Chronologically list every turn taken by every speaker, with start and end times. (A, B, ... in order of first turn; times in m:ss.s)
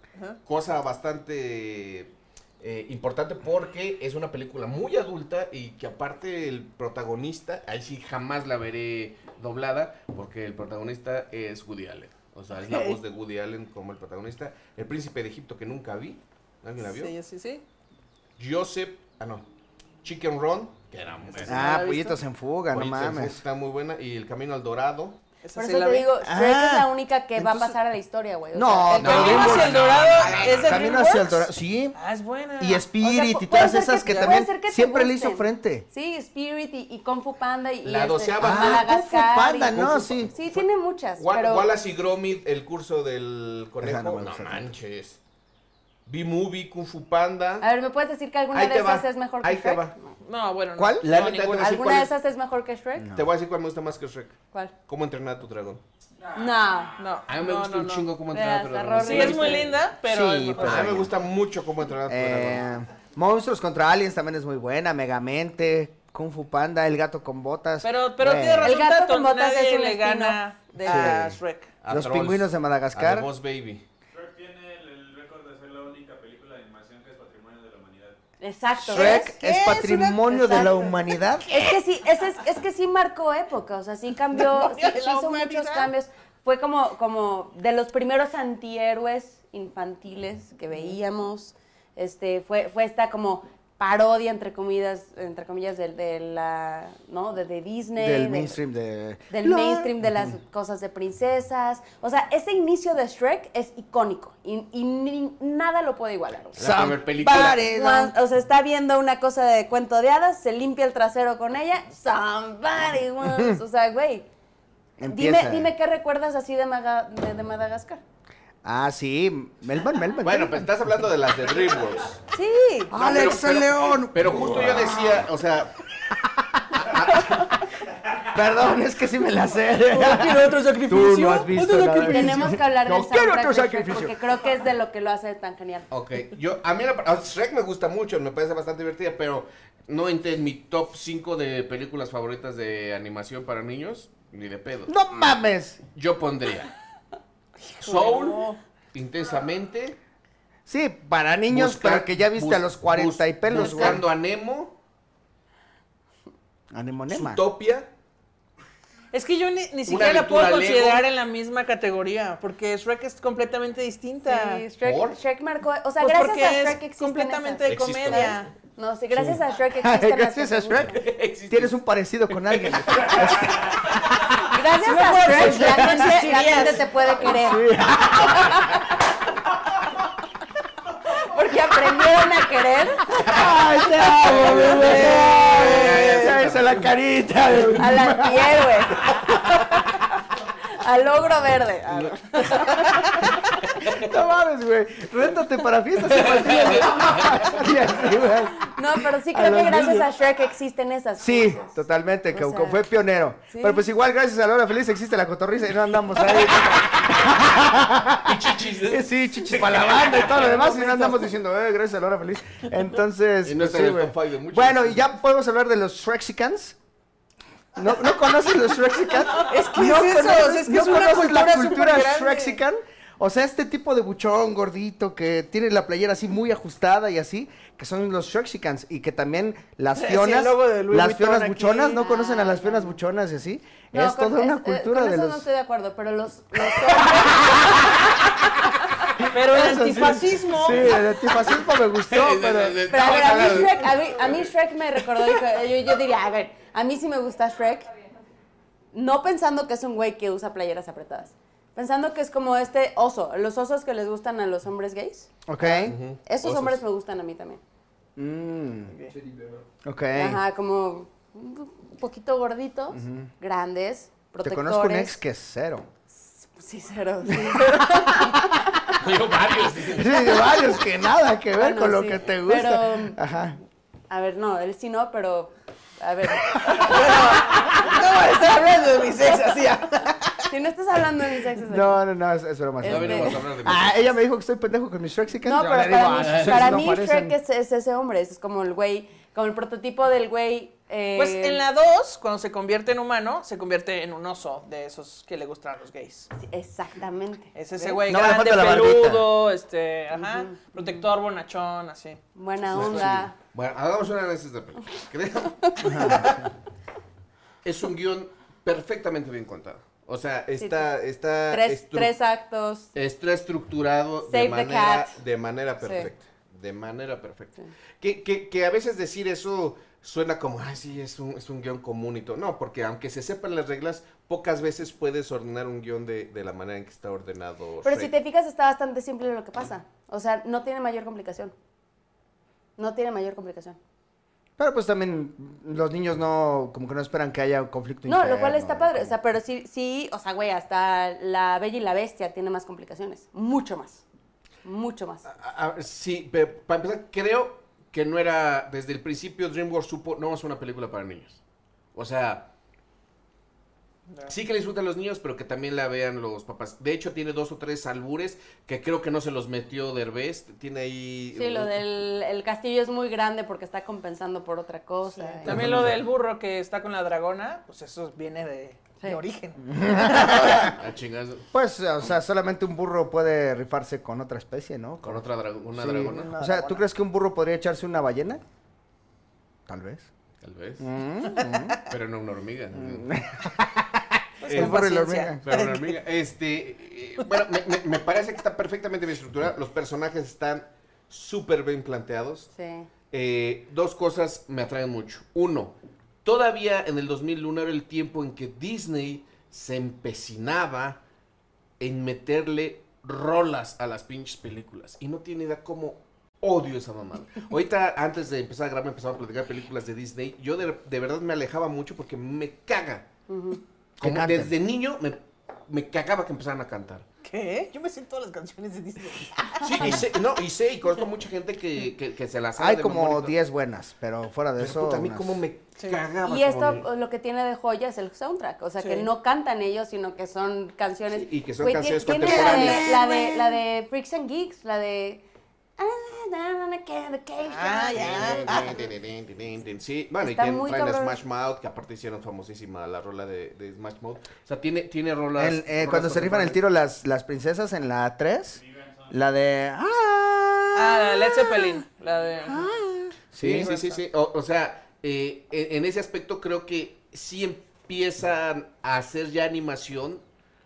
0:00.4-0:17.1 A
0:12.6-0:13.0 B
0:16.8-0:17.6 B
0:18.4-0:19.4 A
0:20.0-0:21.9 A
0:21.3-0:22.2 B
0:21.4-0:23.4 C
0:22.7-0:25.2 A
0:25.4-0:26.1 B
0:25.6-0:29.7 D
0:26.2-0:27.7 C
0:28.5-0:29.9 C
0:28.9-0:31.0 A
0:29.0-0:32.9 B
0:30.5-0:32.0 C
0:32.6-0:35.8 C
0:33.0-0:41.7 D
0:33.5-0:34.4 B
0:37.8-0:38.9 A
0:38.4-0:40.3 C
0:39.7-0:40.6 A
0:41.2-0:45.2 A
0:43.8-0:44.7 C
0:46.1-0:47.7 A
0:47.6-0:50.1 D
0:48.5-0:50.0 A
0:50.2-0:51.8 B
0:50.7-0:51.1 C
0:51.0-0:52.1 A
0:51.6-0:53.1 D
0:53.0-0:53.3 C
0:53.1-0:55.8 A
0:56.3-0:56.9 D
0:57.0-0:58.1 B
0:57.3-0:59.8 A
0:58.3-0:59.8 D
0:59.0-1:01.0 B
1:00.0-1:01.1 C
1:00.6-1:02.7 A
1:02.1-1:08.8 C
1:07.8-1:11.7 B
1:08.6-1:11.2 D
1:10.9-1:13.3 C
1:11.8-1:13.8 A
1:14.1-1:18.2 E
1:18.4-1:19.3 D
1:18.8-1:21.5 C
1:18.9-1:21.8 B
1:21.5-1:38.6 D
1:24.3-1:25.9 B
1:38.0-1:40.3 C
1:39.3-1:46.7 D
1:46.6-1:47.6 A
1:46.6-1:48.1 C
1:47.2-1:54.2 D
1:53.3-1:53.6 C
1:55.0-1:55.7 C
1:55.1-1:58.0 D
1:58.6-2:00.7 C
2:00.2-2:02.2 A
2:02.3-2:03.0 D
2:02.9-2:05.2 C
2:02.9-2:05.9 A
2:06.1-2:06.6 C
2:06.7-2:07.7 A
2:08.2-2:14.2 C
2:09.9-2:12.5 B
2:12.0-2:15.9 D
2:15.9-2:24.9 A
2:24.9-2:25.8 C
2:25.9-2:26.7 A
2:27.6-2:28.6 B
2:27.8-2:30.0 A
2:30.7-2:34.0 C
2:31.5-2:34.8 A
2:36.7-2:37.4 C
2:37.1-2:37.9 A
2:39.1-2:44.6 B
2:39.9-2:41.0 A
2:44.2-2:51.0 D
2:44.8-2:45.2 A
2:46.0-2:48.5 B
2:47.7-2:48.4 A
2:49.1-2:53.9 C
2:50.9-2:51.7 A
2:52.3-2:53.7 A
2:54.4-2:58.6 D
2:54.7-2:56.8 B
2:55.3-2:56.0 C
2:57.2-2:58.7 C
3:01.0-3:03.3 D
3:03.2-3:09.1 C
3:04.1-3:06.3 B
3:04.2-3:06.9 A
3:07.8-3:09.8 D
3:10.7-3:13.2 D
3:13.7-3:14.1 A
3:13.8-3:20.1 C
3:16.2-3:17.4 A
3:18.6-3:21.8 D
3:21.2-3:36.8 C
3:22.3-3:22.8 D
3:23.5-3:23.8 D
3:26.8-3:30.5 A
3:30.5-3:31.2 B
3:33.4-3:35.0 A
3:37.8-3:55.4 C
3:39.3-3:42.6 B
3:50.0-3:52.0 B
3:51.9-3:53.0 D
3:53.9-3:59.0 D
3:57.2-3:57.9 C
3:59.3-4:01.0 B
3:59.4-4:02.9 C
4:02.1-4:04.4 A
4:02.9-4:07.9 D
4:08.9-4:15.3 D
4:15.5-4:16.0 C
4:15.6-4:16.8 A
4:16.2-4:17.6 D
4:18.2-4:19.0 C
4:19.8-4:20.4 C
4:20.1-4:25.2 D
4:22.9-4:23.3 C
4:24.4-4:25.9 C
4:26.1-4:28.8 D
4:27.3-4:28.7 C
4:28.9-4:30.4 A
4:29.9-4:33.6 C
4:31.5-4:33.2 D
4:34.1-4:37.9 D
4:36.7-4:40.5 B
4:40.5-4:42.0 D
4:41.7-4:47.3 C
4:42.8-4:43.4 D
4:42.8-4:44.1 A
4:45.4-4:51.6 D
4:46.1-4:46.8 A
4:51.2-4:56.3 B
4:56.4-4:58.0 D
4:57.5-5:02.2 B
4:58.0-4:59.2 C
5:00.1-5:00.6 D
5:02.3-5:03.3 D
5:02.7-5:03.3 C
5:02.7-5:06.4 A
5:05.8-5:06.5 C
5:07.6-5:12.1 A
5:10.6-5:10.9 D
5:11.5-5:12.9 D
5:12.9-5:28.1 A
5:14.2-5:15.2 D
5:15.8-5:16.1 D
5:27.8-5:31.5 D
5:32.8-5:33.8 D
5:34.6-5:39.2 C
5:38.1-5:44.0 D
5:44.6-5:45.2 D
5:45.2-5:51.4 A
5:51.9-5:52.5 A
5:54.1-5:54.3 B
5:54.3-6:01.7 A
6:01.3-6:05.6 D
6:05.1-6:10.8 B
6:05.5-6:06.0 A
6:05.5-6:06.0 C
6:09.7-6:10.7 C
6:10.5-6:11.5 A
6:11.5-6:18.4 C
6:15.0-6:16.3 A
6:16.1-6:16.8 B
6:19.7-6:20.1 C
6:20.4-6:20.9 A
6:20.8-6:21.8 C
6:21.8-6:23.2 A
6:22.7-6:25.4 C
6:24.4-6:26.0 B
6:24.4-6:24.8 A
6:25.4-6:32.5 A
6:32.5-6:32.9 D
6:33.1-6:41.0 A
6:41.8-6:53.1 A
6:53.3-6:53.6 D
6:54.0-6:54.5 C
6:54.0-6:57.0 A
6:57.2-7:00.0 B
6:59.6-7:03.4 A
6:59.8-7:00.1 C
7:02.6-7:05.4 C
7:04.6-7:06.9 A
7:06.2-7:15.2 D
7:08.8-7:09.1 B
7:11.1-7:13.0 A
7:12.2-7:13.6 B
7:15.8-7:18.8 D
7:17.4-7:18.7 B
7:17.9-7:26.6 A
7:20.2-7:21.2 D
7:25.4-7:31.8 C
7:28.5-7:29.1 E
7:30.7-7:32.7 B
7:32.4-7:33.7 C
7:33.4-7:40.2 A
7:33.5-7:34.0 B